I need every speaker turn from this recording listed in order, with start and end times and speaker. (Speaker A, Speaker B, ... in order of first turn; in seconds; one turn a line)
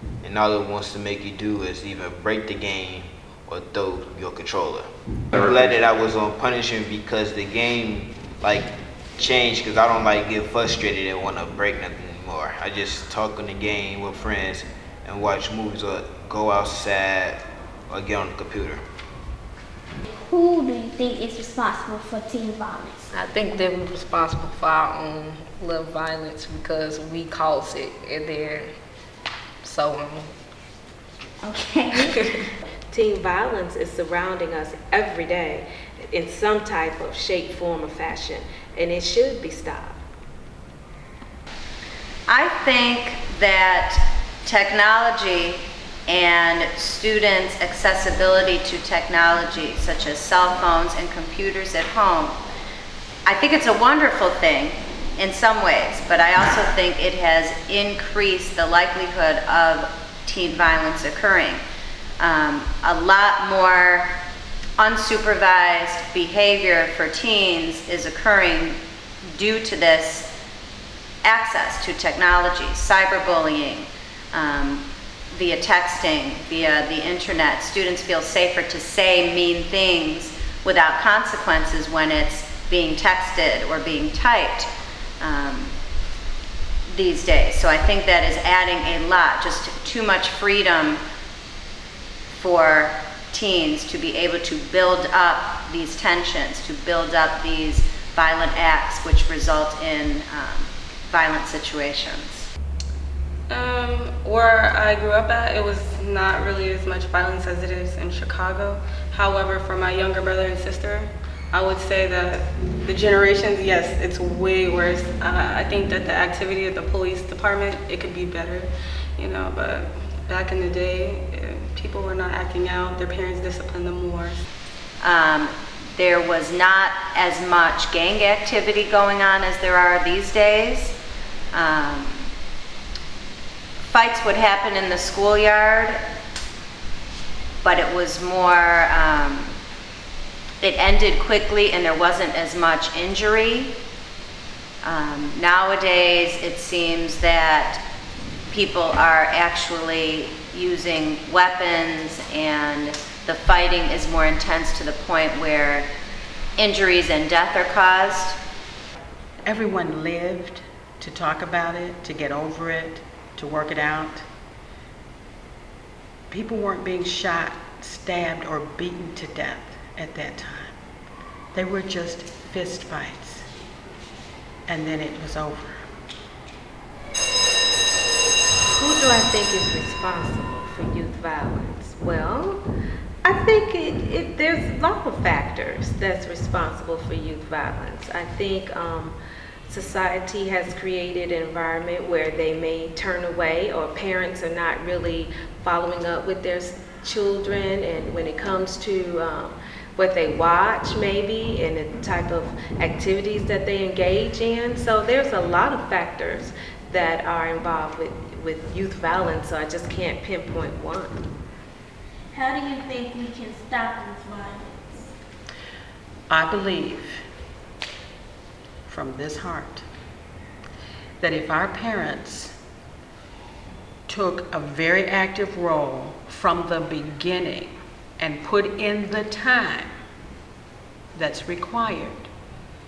Speaker A: 0.2-18.8
Speaker B: 20.3-23.1
Speaker C: 23.1-28.7
Speaker C: 29.6-30.3
Speaker B: 31.4-32.2
Speaker C: 32.0-32.2
Speaker D: 32.9-40.0
Speaker E: 42.3-52.4
Speaker E: 53.3-61.6
Speaker E: 62.2-64.1
Speaker E: 64.8-68.8
Speaker E: 69.3-70.3
Speaker E: 71.2-84.7
Speaker E: 85.2-85.7
Speaker E: 86.9-91.0
Speaker E: 92.3-102.5
Speaker F: 103.5-124.4
Speaker E: 125.0-131.0
Speaker E: 131.5-132.3
Speaker E: 133.9-136.0
Speaker E: 137.6-139.5
Speaker E: 140.6-143.7
Speaker E: 144.8-147.8
Speaker E: 148.5-155.9
Speaker E: 156.6-158.4
Speaker G: 159.5-164.2
Speaker G: 166.3-170.8
Speaker G: 171.5-173.5
Speaker G: 174.7-175.9
Speaker D: 178.7-182.6
Speaker D: 183.2-189.2
Speaker D: 189.7-211.2
Speaker B: 212.3-215.1
Speaker G: 216.3-217.2
Speaker G: 218.9-219.9
Speaker G: 221.2-222.5
Speaker G: 224.1-229.9
Speaker G: 231.1-232.3